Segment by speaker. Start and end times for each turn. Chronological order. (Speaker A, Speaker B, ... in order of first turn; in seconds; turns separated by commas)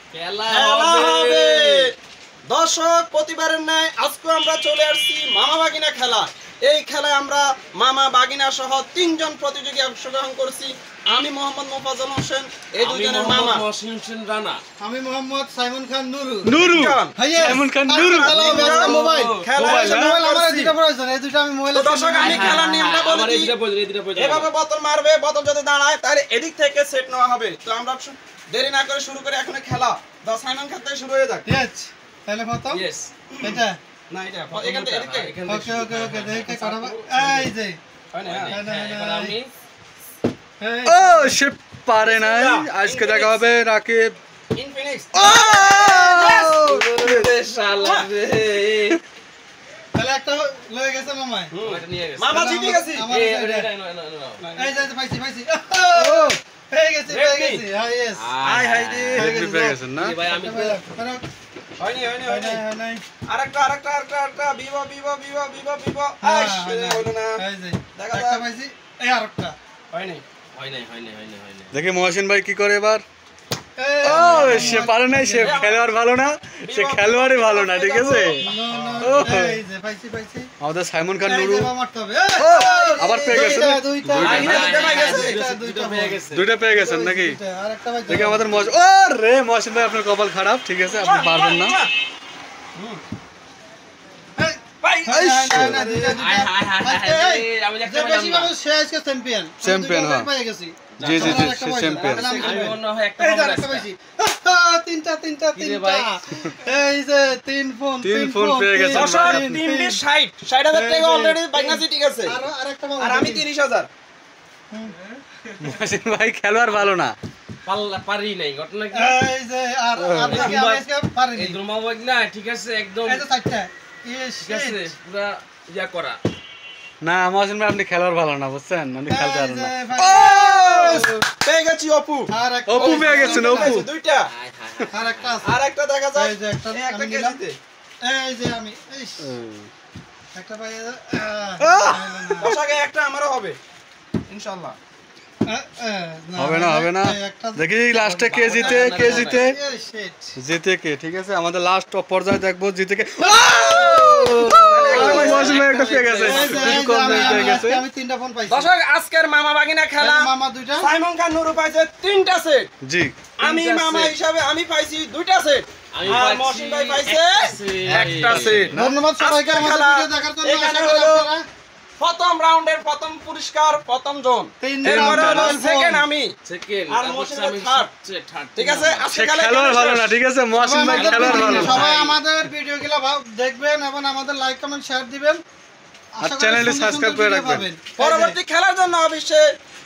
Speaker A: 0.1-1.9, Speaker B: 0.5-1.9, Speaker B: 2.5-13.6, Speaker A: 12.8-14.6, Speaker C: 14.8-16.6, Speaker D: 16.4-18.6, Speaker B: 16.6-20.7, Speaker C: 17.2-22.8, Speaker A: 18.4-19.5, Speaker D: 19.6-20.1, Speaker B: 21.7-23.5, Speaker A: 22.1-24.5, Speaker B: 24.1-31.5, Speaker C: 31.4-32.8, Speaker A: 32.7-33.1, Speaker B: 33.3-35.3, Speaker C: 33.4-33.8, Speaker A: 34.5-37.5, Speaker C: 35.5-37.8, Speaker B: 38.1-38.6, Speaker A: 38.2-39.5, Speaker C: 38.5-39.4, Speaker C: 40.6-41.4, Speaker D: 40.9-44.2, Speaker B: 42.0-43.4, Speaker B: 44.5-45.9, Speaker D: 45.1-47.3, Speaker A: 46.0-49.0, Speaker B: 47.8-48.1, Speaker C: 50.0-51.5, Speaker B: 51.5-53.1, Speaker A: 51.6-52.4, Speaker C: 52.3-53.7, Speaker A: 53.1-54.4, Speaker B: 54.4-54.9, Speaker C: 54.6-58.3, Speaker D: 56.0-56.3, Speaker B: 57.1-57.6, Speaker A: 58.1-59.2, Speaker B: 58.4-59.3, Speaker D: 59.1-60.2, Speaker C: 59.1-61.2, Speaker A: 60.0-60.8, Speaker B: 61.8-62.6, Speaker C: 62.2-63.0, Speaker B: 63.3-67.4, Speaker C: 66.2-69.6, Speaker B: 68.0-68.4, Speaker B: 69.9-70.2, Speaker A: 70.5-71.7, Speaker D: 71.7-73.0, Speaker C: 73.8-75.6, Speaker D: 74.0-78.5, Speaker B: 74.3-74.8, Speaker B: 75.4-75.9, Speaker B: 76.6-78.7, Speaker C: 78.4-80.5, Speaker A: 78.7-79.3, Speaker D: 79.0-79.6, Speaker D: 80.6-81.7, Speaker C: 81.2-88.7, Speaker D: 82.4-84.7, Speaker B: 82.4-83.3, Speaker A: 84.1-86.5, Speaker B: 84.2-85.4, Speaker D: 86.3-87.4, Speaker D: 88.1-91.8, Speaker B: 90.9-91.9, Speaker B: 92.8-93.0, Speaker C: 94.4-102.8, Speaker B: 94.8-96.2, Speaker D: 95.1-95.9, Speaker A: 96.1-98.5, Speaker D: 99.6-100.3, Speaker A: 101.0-101.5, Speaker D: 101.0-102.3, Speaker B: 101.3-103.7, Speaker A: 102.3-103.9, Speaker C: 103.3-110.0, Speaker A: 105.5-106.2, Speaker D: 108.0-109.6, Speaker B: 108.9-112.4, Speaker C: 110.7-113.5, Speaker B: 113.0-113.9, Speaker D: 115.6-117.2, Speaker A: 117.7-119.2, Speaker C: 118.9-121.6, Speaker D: 120.0-120.5, Speaker A: 120.3-123.3, Speaker C: 123.0-124.8, Speaker A: 124.4-126.2, Speaker D: 127.0-131.2, Speaker C: 129.1-131.2, Speaker B: 130.9-134.3, Speaker C: 132.3-133.8, Speaker D: 132.7-133.9, Speaker A: 134.3-135.5, Speaker C: 134.8-135.6, Speaker B: 135.4-137.6, Speaker C: 136.2-137.4, Speaker C: 138.0-139.3, Speaker D: 139.2-139.7, Speaker C: 140.3-142.5, Speaker D: 141.6-142.5, Speaker B: 142.4-143.6, Speaker B: 144.3-144.8, Speaker C: 145.5-147.7, Speaker D: 146.4-149.6, Speaker A: 147.9-149.5, Speaker C: 148.5-150.3, Speaker D: 150.4-157.8, Speaker C: 153.3-155.6, Speaker B: 154.7-155.6, Speaker A: 154.9-156.9, Speaker C: 156.2-158.7, Speaker B: 156.3-157.6, Speaker B: 158.5-162.7, Speaker C: 160.0-160.9, Speaker D: 162.8-163.1, Speaker B: 163.4-171.3, Speaker A: 163.4-164.2, Speaker A: 165.9-168.7, Speaker D: 167.9-169.0, Speaker C: 168.7-171.4, Speaker B: 172.0-176.3, Speaker C: 174.6-176.1, Speaker D: 174.8-175.6, Speaker A: 176.4-179.1, Speaker B: 176.9-177.9, Speaker B: 178.6-180.1, Speaker D: 179.1-181.9, Speaker C: 180.6-185.4, Speaker A: 180.9-182.2, Speaker B: 181.0-181.9, Speaker C: 186.2-188.4, Speaker D: 186.2-187.7, Speaker B: 188.0-189.5